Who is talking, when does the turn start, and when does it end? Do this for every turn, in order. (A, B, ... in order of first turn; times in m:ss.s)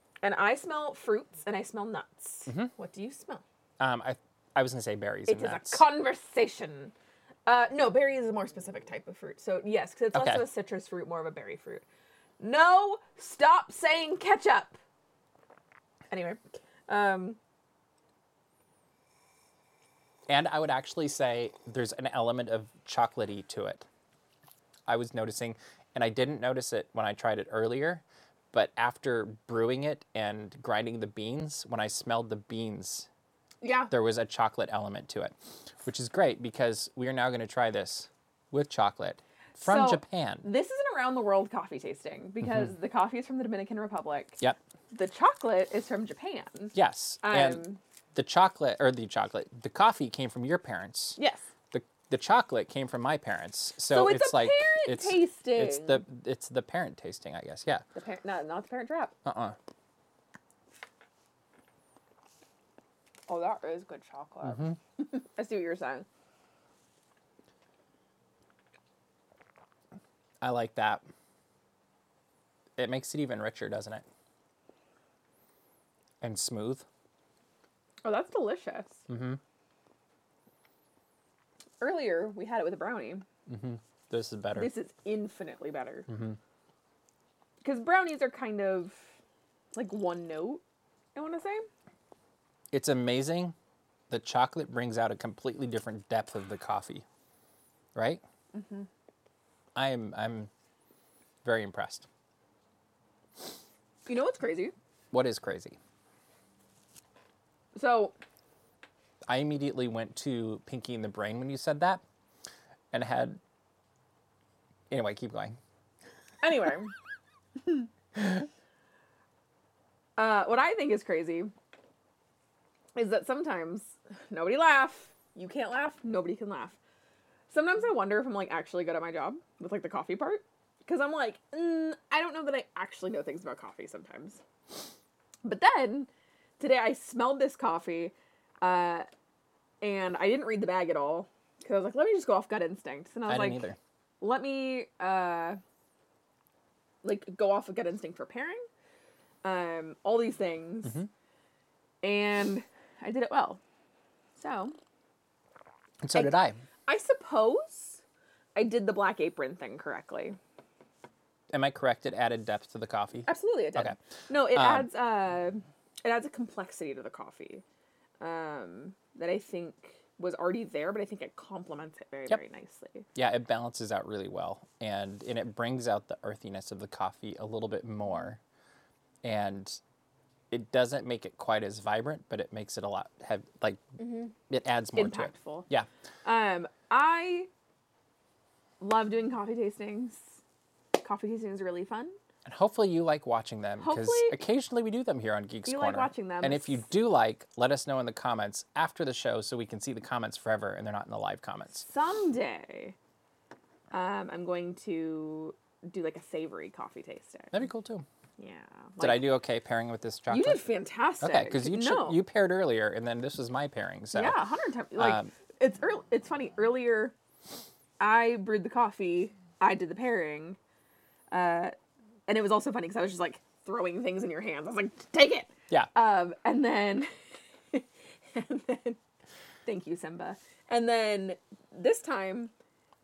0:00.2-0:03.4 A
0:02.5-0:02.7 B
0:03.8-0:05.8 B
0:05.3-0:06.9 A
0:07.5-0:11.8 A
0:10.1-0:10.4 B
0:12.4-0:14.8 A
0:16.1-0:17.4 A
0:20.3-0:23.9 B
0:24.9-0:33.1 B
0:33.6-0:33.9 A
0:33.9-0:40.5 B
0:39.6-0:44.4 A
0:42.4-0:42.7 B
0:44.9-0:47.8 A
0:46.7-0:47.6 B
0:48.2-0:51.2 B
0:51.2-0:51.5 A
0:51.7-0:57.9 B
0:53.9-0:56.0 A
0:58.0-0:59.1 A
0:59.2-0:59.6 B
1:03.3-1:06.1 A
1:04.4-1:04.8 B
1:10.4-1:11.0 B
1:12.8-1:14.0 B
1:16.2-1:16.8 B
1:18.0-1:19.1 A
1:19.1-1:19.4 B
1:21.8-1:23.2 A
1:23.5-1:24.7 B
1:24.6-1:26.1 A
1:26.1-1:26.4 B
1:27.6-1:29.1 A
1:29.7-1:30.6 A
1:31.2-1:31.7 A
1:32.7-1:33.6 B
1:34.1-1:37.0 B
1:38.0-1:38.2 B
1:38.5-1:38.9 A
1:39.8-1:40.5 B
1:41.4-1:42.1 B
1:44.1-1:44.7 A
1:45.1-1:45.8 B
1:47.8-1:48.2 A
1:49.3-1:52.0 B
1:52.9-1:53.4 B
1:54.9-1:55.6 B
1:56.4-1:56.9 A
2:00.2-2:01.5 A
2:03.0-2:06.8 A
2:07.5-2:14.4 A
2:15.4-2:16.1 A
2:16.6-2:19.1 A
2:19.8-2:23.7 A
2:23.3-2:23.8 B
2:24.2-2:25.6 A
2:27.0-2:28.6 A
2:29.4-2:31.0 A
2:32.0-2:33.6 A
2:34.4-2:34.8 A
2:36.0-2:36.6 B
2:36.1-2:38.0 A
2:38.6-2:40.4 A
2:41.5-2:44.0 B
2:43.3-2:47.6 A
2:44.5-2:44.9 B
2:48.2-2:53.1 A
2:53.2-2:58.4 B
2:59.2-2:59.8 B
3:00.5-3:03.8 B
3:04.0-3:04.3 A
3:04.5-3:05.9 B
3:04.9-3:05.7 A
3:06.2-3:07.5 A
3:08.8-3:10.4 A
3:11.0-3:12.2 A
3:12.4-3:21.8 B
3:13.8-3:14.4 A
3:15.7-3:16.9 A
3:21.8-3:23.0 A
3:23.9-3:27.6 A
3:27.5-3:28.0 B
3:28.4-3:29.2 A
3:29.0-3:30.6 B
3:30.3-3:32.2 A
3:31.2-3:34.4 B
3:34.1-3:37.1 A
3:35.0-3:35.3 B
3:38.0-3:40.6 A
3:41.3-3:41.8 A
3:42.3-3:47.1 A
3:47.7-3:49.0 A
3:49.6-3:52.5 A